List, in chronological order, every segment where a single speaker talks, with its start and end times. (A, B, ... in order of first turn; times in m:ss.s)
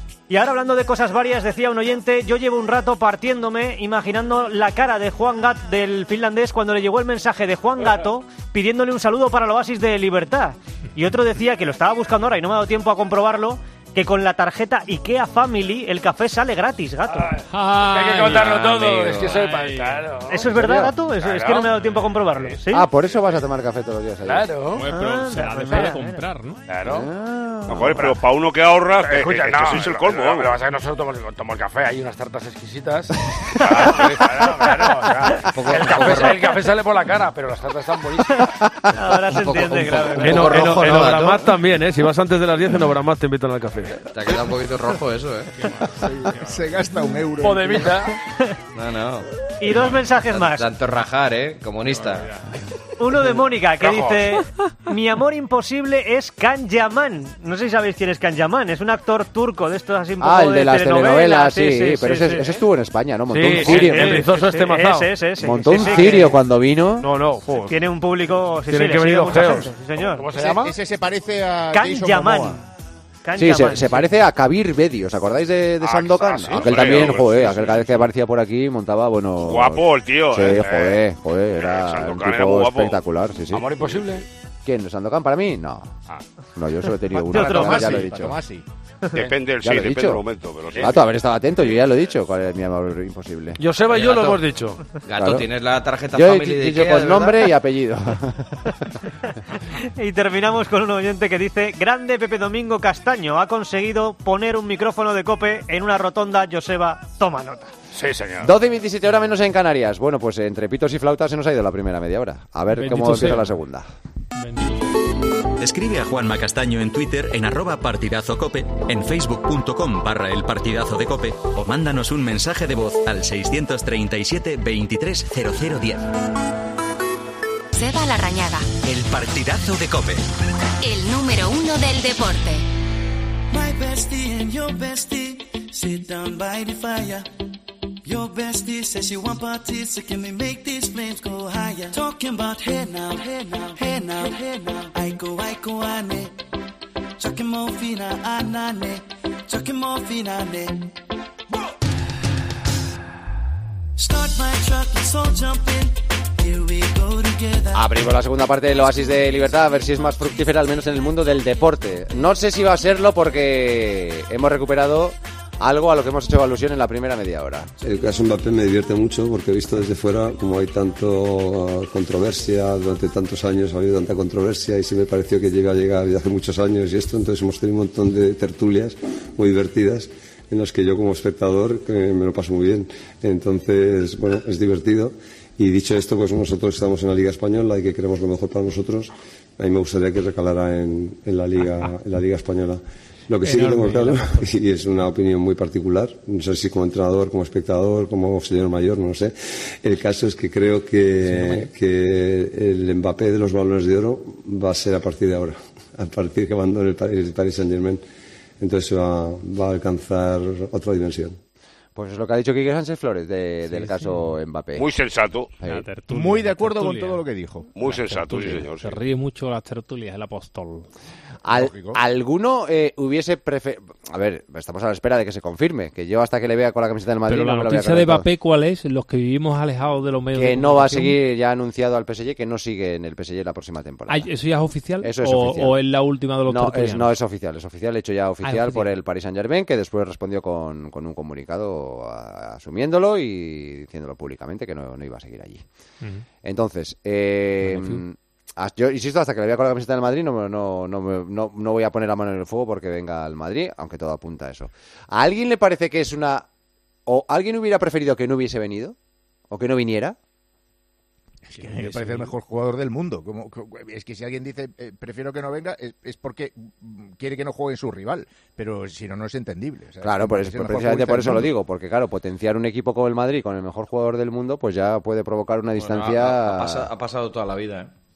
0:00.3-0:17.3 A
0:17.1-0:23.3 B
0:17.5-0:20.0 C
0:18.3-0:19.4 D
0:20.3-0:22.9 A
0:20.5-0:20.9 E
0:22.7-0:24.5 E
0:24.2-0:24.9 B
0:24.7-0:26.6 C
0:24.9-0:26.2 A
0:26.7-0:27.1 B
0:26.8-0:28.1 E
0:27.7-0:30.6 F
0:27.8-0:28.2 B
0:28.9-0:38.5 B
0:33.6-0:34.0 F
0:35.4-0:36.4 D
0:38.9-0:40.6 A
0:39.4-0:41.5 D
0:40.2-0:44.0 G
0:44.0-0:45.6 D
0:45.5-0:46.8 C
0:46.0-0:48.1 H
0:47.4-0:48.2 B
0:48.7-0:49.3 D
0:49.6-0:50.6 A
0:50.2-0:52.3 D
0:51.9-0:52.4 C
0:53.0-1:02.5 A
0:53.8-0:54.3 B
1:00.2-1:04.2 E
1:03.3-1:05.1 G
1:03.6-1:06.4 A
1:05.4-1:07.1 E
1:05.8-1:06.3 G
1:07.0-1:07.8 G
1:07.6-1:10.3 A
1:08.7-1:09.7 G
1:10.0-1:10.7 B
1:10.3-1:12.6 H
1:11.7-1:12.6 A
1:13.2-1:14.0 A
1:13.4-1:24.0 E
1:15.9-1:17.9 B
1:16.4-1:17.7 F
1:19.4-1:20.7 F
1:20.4-1:21.0 B
1:21.6-1:23.0 F
1:23.5-1:24.2 B
1:24.6-1:25.9 E
1:26.6-1:28.4 E
1:27.2-1:28.6 H
1:27.3-1:28.0 A
1:29.1-1:30.9 F
1:29.6-1:30.2 E
1:30.7-1:31.0 B
1:30.8-1:33.6 E
1:33.6-1:34.8 G
1:33.9-1:34.5 D
1:35.0-1:37.5 D
1:35.1-1:35.5 E
1:36.1-1:38.7 E
1:39.7-1:47.7 A
1:47.9-1:48.5 B
1:48.4-1:53.9 E
1:52.7-1:53.6 C
1:54.4-1:54.8 C
1:55.6-2:06.1 I
2:07.7-2:08.7 J
2:08.8-2:10.2 I
2:10.8-2:12.6 J
2:13.5-2:17.3 K
2:18.0-2:26.3 K
2:27.2-2:30.9 K
2:34.0-2:37.9 K
2:37.7-2:47.7 E
2:47.8-3:28.0 L
3:13.4-3:14.5 C
3:21.3-3:21.7 C
3:28.6-3:31.4 L
3:31.9-3:34.8 E
3:33.7-3:34.3 C
3:34.8-3:35.5 F
3:35.6-3:37.2 C
3:36.1-3:37.7 H
3:37.8-3:39.0 F
3:37.8-3:40.9 C
3:41.4-3:48.3 E
3:41.5-3:42.0 H
3:47.3-3:51.2 C
3:50.3-3:54.3 E
3:54.1-3:57.1 C
3:55.0-3:55.8 E
3:56.4-4:05.6 E
3:58.4-3:58.9 C
4:06.4-4:16.5 E
4:07.6-4:08.0 C
4:17.0-4:19.0 E
4:19.5-4:20.2 E
4:21.4-4:31.5 H
4:21.7-4:22.3 C
4:30.0-4:36.9 E
4:35.8-4:37.9 D